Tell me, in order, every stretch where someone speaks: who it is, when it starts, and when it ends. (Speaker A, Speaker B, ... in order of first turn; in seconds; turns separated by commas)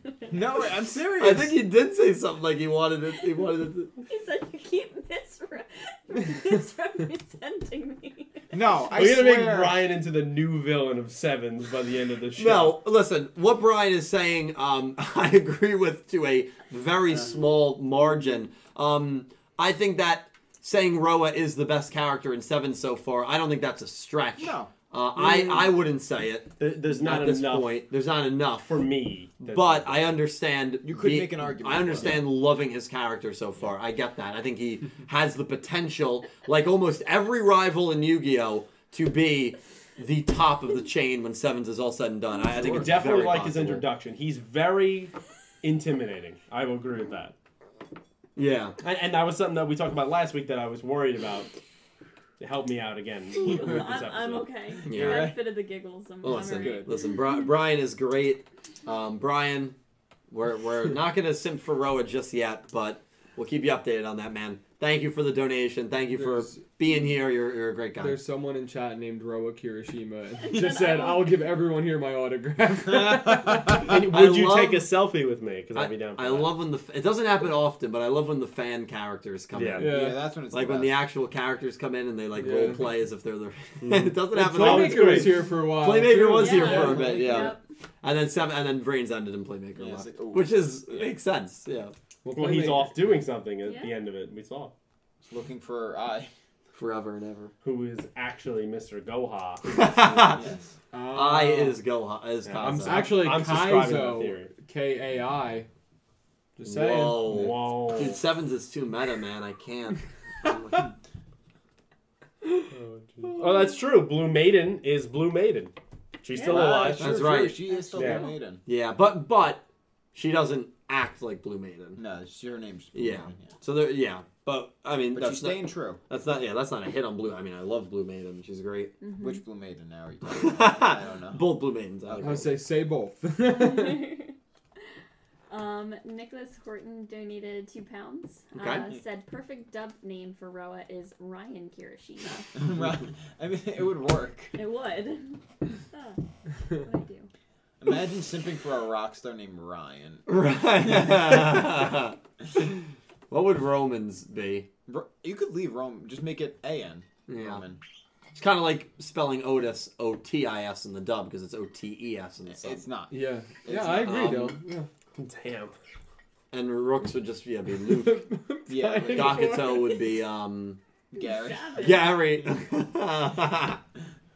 Speaker A: 0.3-1.6, Speaker B: 1.2-3.9, Speaker C: 4.1-8.6, Speaker A: 8.5-9.8, Speaker D: 8.9-12.7, Speaker B: 12.4-28.8, Speaker A: 24.4-24.7, Speaker D: 25.2-25.7, Speaker D: 26.6-27.8, Speaker D: 28.6-30.1, Speaker B: 29.4-43.9, Speaker A: 30.8-32.3, Speaker D: 42.5-47.3, Speaker B: 48.4-48.8, Speaker D: 48.8-51.5, Speaker D: 52.4-54.5, Speaker C: 53.4-57.1, Speaker A: 54.9-55.4, Speaker B: 54.9-55.3, Speaker B: 56.2-59.8, Speaker A: 56.2-56.9, Speaker B: 60.3-68.2, Speaker E: 66.1-66.6, Speaker E: 68.0-73.9, Speaker C: 70.4-71.4, Speaker A: 72.9-73.5, Speaker D: 73.7-76.5, Speaker B: 73.9-74.9, Speaker B: 75.7-80.0, Speaker D: 79.5-79.9, Speaker E: 79.8-80.2, Speaker A: 79.8-81.0, Speaker B: 80.5-91.9, Speaker E: 82.3-82.8, Speaker D: 83.8-85.5, Speaker E: 84.3-87.3, Speaker C: 86.3-87.6, Speaker A: 86.6-87.5, Speaker A: 89.8-91.1, Speaker E: 92.2-93.0, Speaker D: 92.3-94.7, Speaker C: 93.6-93.9, Speaker A: 95.2-96.3, Speaker B: 96.7-97.5, Speaker D: 97.6-99.8, Speaker B: 99.7-100.4, Speaker A: 100.2-100.6, Speaker E: 100.9-101.8, Speaker B: 101.1-103.2, Speaker D: 102.4-104.5, Speaker E: 102.8-105.7, Speaker E: 106.6-107.5, Speaker B: 106.6-110.9, Speaker D: 107.3-108.2, Speaker D: 112.7-117.2, Speaker E: 113.2-113.5, Speaker C: 116.3-117.0, Speaker A: 116.4-118.6, Speaker B: 117.0-117.6, Speaker C: 117.7-118.3, Speaker D: 117.9-118.3, Speaker B: 118.7-119.6, Speaker B: 120.1-122.0, Speaker A: 122.0-123.5, Speaker B: 122.9-128.9, Speaker A: 125.1-126.0, Speaker C: 129.0-129.4, Speaker A: 129.2-131.4, Speaker B: 130.3-132.5, Speaker A: 132.1-132.4, Speaker E: 132.2-134.2, Speaker C: 133.4-134.3, Speaker C: 135.5-142.5, Speaker B: 138.6-138.9, Speaker A: 142.5-144.6, Speaker C: 144.5-145.4, Speaker C: 145.9-147.3, Speaker A: 147.8-150.2, Speaker B: 150.3-152.7, Speaker A: 151.0-151.6, Speaker B: 153.3-154.7, Speaker A: 154.9-157.8, Speaker B: 157.3-157.6, Speaker B: 158.3-162.8, Speaker A: 162.5-164.1, Speaker E: 163.1-164.9, Speaker B: 163.9-164.6, Speaker D: 165.2-165.7, Speaker B: 166.5-168.3, Speaker E: 167.9-169.8, Speaker A: 168.7-169.6, Speaker B: 169.1-170.8, Speaker A: 171.1-172.0, Speaker C: 171.2-172.1, Speaker B: 171.8-173.8